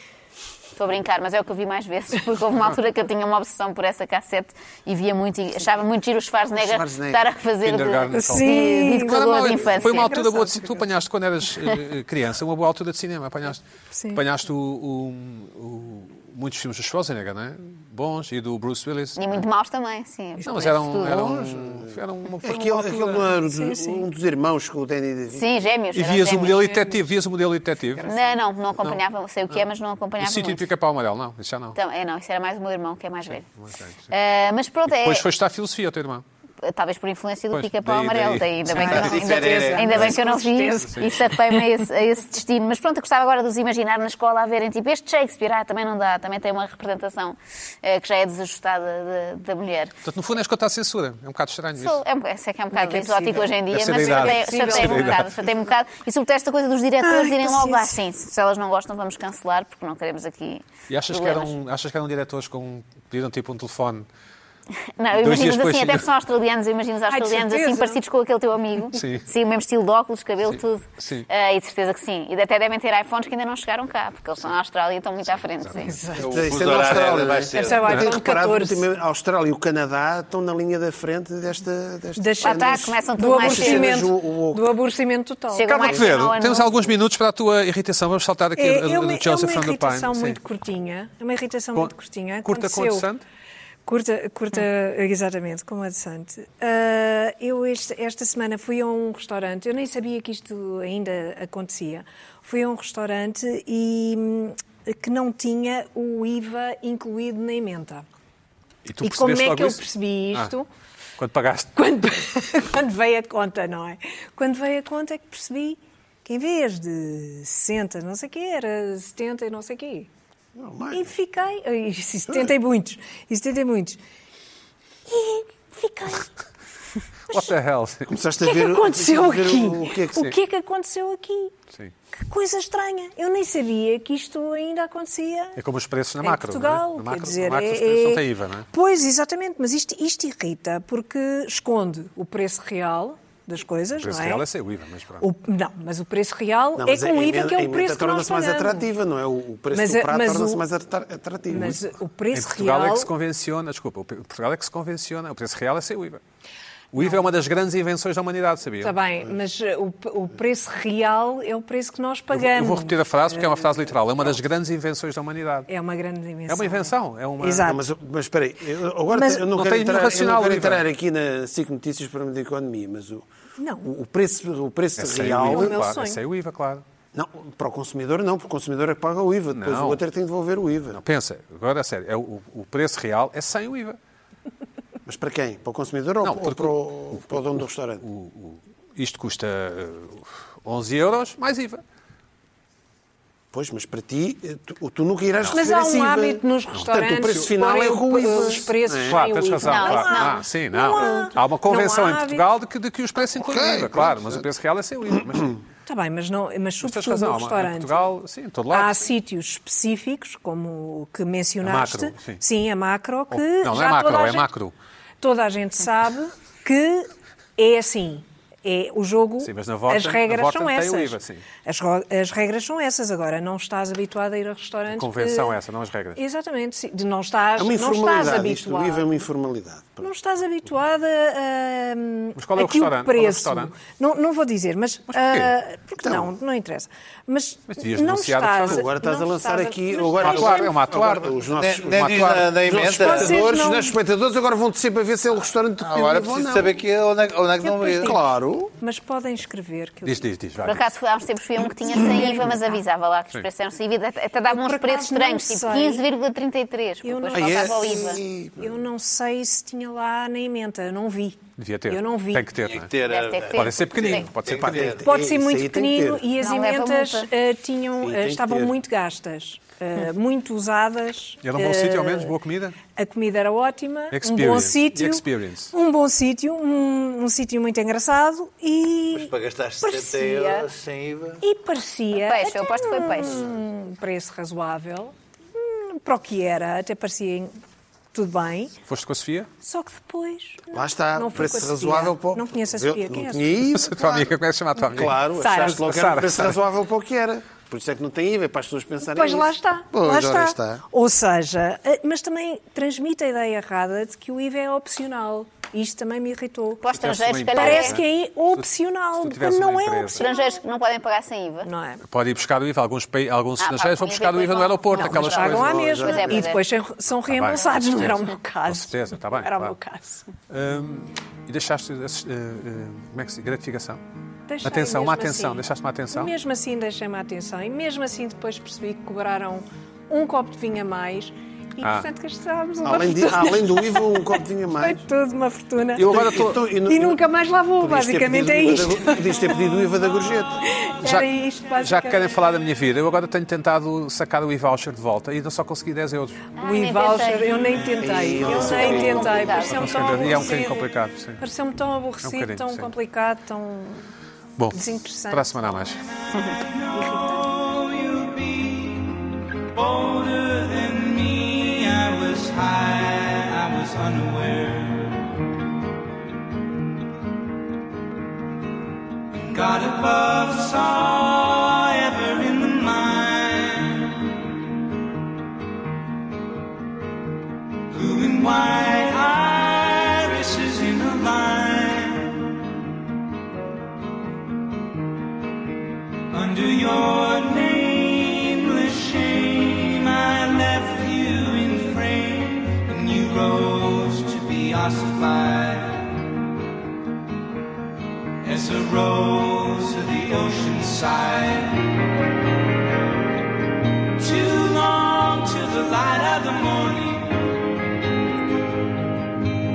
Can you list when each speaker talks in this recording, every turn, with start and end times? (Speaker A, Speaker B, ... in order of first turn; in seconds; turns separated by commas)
Speaker A: 0.7-10.1, Speaker B: 6.5-7.2, Speaker C: 7.6-19.4, Speaker D: 8.1-10.9, Speaker D: 13.9-14.2, Speaker A: 19.2-21.4, Speaker C: 20.4-23.4, Speaker B: 21.4-25.5, Speaker D: 23.5-24.0, Speaker A: 25.3-26.9, Speaker C: 25.9-28.1, Speaker A: 28.1-30.6, Speaker C: 30.2-31.8, Speaker A: 31.8-33.5, Speaker C: 33.3-34.1, Speaker A: 34.1-35.2, Speaker C: 34.9-36.2, Speaker A: 36.6-49.9, Speaker C: 37.5-39.1, Speaker D: 38.7-41.7, Speaker E: 38.8-40.0, Speaker C: 50.0-52.0, Speaker A: 51.8-61.5, Speaker C: 52.8-55.3, Speaker D: 54.0-55.1, Speaker D: 57.0-57.9, Speaker C: 60.9-64.0, Speaker A: 65.0-76.0, Speaker C: 65.1-66.1, Speaker D: 67.1-68.0, Speaker C: 68.9-69.2, Speaker C: 70.5-71.3, Speaker C: 75.7-75.9, Speaker D: 75.8-76.3, Speaker B: 76.2-84.7, Speaker E: 76.2-77.9, Speaker D: 77.5-78.9, Speaker D: 82.2-86.0, Speaker A: 82.4-84.0, Speaker A: 85.5-86.9, Speaker C: 85.6-90.4, Speaker D: 88.5-93.1, Speaker C: 92.4-93.2, Speaker D: 93.9-108.0, Speaker C: 108.8-109.8, Speaker D: 109.0-110.7, Speaker C: 111.2-111.8, Speaker D: 111.8-120.1, Speaker B: 120.5-121.1, Speaker D: 120.9-124.0, Speaker D: 125.1-126.3, Speaker C: 127.3-128.1, Speaker B: 128.1-130.3, Speaker D: 128.4-131.6, Speaker D: 132.1-135.6, Speaker C: 135.6-138.7, Speaker D: 136.2-144.4, Speaker C: 144.0-145.3, Speaker D: 145.2-148.9, Speaker B: 146.8-151.8, Speaker D: 149.7-150.6, Speaker D: 151.5-153.1, Speaker C: 152.3-156.2, Speaker C: 156.9-159.0, Speaker D: 158.8-163.7, Speaker C: 162.3-165.7, Speaker D: 165.7-167.8, Speaker C: 166.5-167.7, Speaker B: 167.6-173.3, Speaker D: 169.1-169.4, Speaker C: 169.5-170.8, Speaker D: 173.6-173.9, Speaker B: 173.8-175.8, Speaker C: 175.0-176.8, Speaker D: 175.5-176.2, Speaker B: 177.1-181.0, Speaker C: 179.5-180.0, Speaker C: 180.9-184.0, Speaker B: 185.1-188.1, Speaker C: 186.2-187.4, Speaker C: 188.0-191.8, Speaker B: 193.5-199.2, Speaker D: 195.5-202.5, Speaker C: 196.7-197.4, Speaker C: 199.0-205.6, Speaker A: 199.6-200.4, Speaker B: 203.4-204.4, Speaker D: 205.9-208.1, Speaker C: 206.8-209.1, Speaker D: 208.7-214.5, Speaker C: 211.6-212.4, Speaker C: 213.3-214.7, Speaker D: 215.2-225.6, Speaker C: 219.4-221.4, Speaker C: 224.9-226.2, Speaker D: 226.2-229.1, Speaker B: 227.6-230.1, Speaker D: 230.0-240.8, Speaker C: 232.4-233.7, Speaker C: 235.1-235.5, Speaker B: 236.0-236.3, Speaker C: 237.7-238.8, Speaker B: 238.7-246.7, Speaker C: 240.2-241.4, Speaker E: 241.6-243.5, Speaker C: 241.9-242.5, Speaker D: 242.9-243.9, Speaker E: 245.8-248.2, Speaker D: 247.6-248.2, Speaker B: 247.9-248.7, Speaker D: 248.8-250.2, Speaker C: 250.1-250.9, Speaker A: 250.6-258.2, Speaker D: 251.8-252.6, Speaker D: 254.5-256.0, Speaker D: 257.0-262.5, Speaker B: 257.3-258.7, Speaker C: 261.6-262.9, Speaker E: 262.6-265.1, Speaker A: 263.0-264.3, Speaker C: 263.5-265.0, Speaker B: 264.4-266.3, Speaker D: 265.0-272.3, Speaker A: 266.4-267.3, Speaker B: 268.0-268.8, Speaker C: 271.4-272.8, Speaker D: 272.9-280.7, Speaker C: 274.1-275.7, Speaker E: 279.1-281.4, Speaker D: 281.4-287.6, Speaker A: 282.1-283.5, Speaker D: 288.1-288.7, Speaker C: 288.9-289.5, Speaker D: 289.6-293.5, Speaker B: 290.7-294.4, Speaker C: 293.7-296.6, Speaker B: 294.9-300.8, Speaker D: 295.3-295.8, Speaker D: 299.1-306.8, Speaker A: 306.8-308.0, Speaker C: 306.9-308.7, Speaker D: 307.5-310.6, Speaker C: 309.2-310.3, Speaker A: 310.2-311.7, Speaker D: 311.6-312.0, Speaker C: 312.0-316.1, Speaker A: 313.6-316.6, Speaker D: 314.9-320.2, Speaker B: 315.5-316.4, Speaker C: 317.1-319.7, Speaker C: 320.5-324.0, Speaker D: 324.5-336.1, Speaker C: 324.6-326.3, Speaker C: 331.8-332.1, Speaker B: 332.8-335.0, Speaker C: 336.0-336.6, Speaker B: 336.0-337.2, Speaker D: 336.8-339.6, Speaker B: 337.8-340.6, Speaker F: 339.8-340.4, Speaker D: 340.6-342.3, Speaker C: 341.0-346.4, Speaker D: 346.6-354.1, Speaker A: 346.6-350.3, Speaker B: 348.0-349.7, Speaker C: 349.6-351.4, Speaker C: 352.2-352.9, Speaker C: 354.6-356.0, Speaker D: 354.7-355.6, Speaker F: 356.0-365.3, Speaker D: 356.9-357.5, Speaker F: 369.3-374.4, Speaker F: 377.9-382.6, Speaker F: 386.3-396.3, Speaker F: 398.4-401.9, Speaker F: 404.2-407.6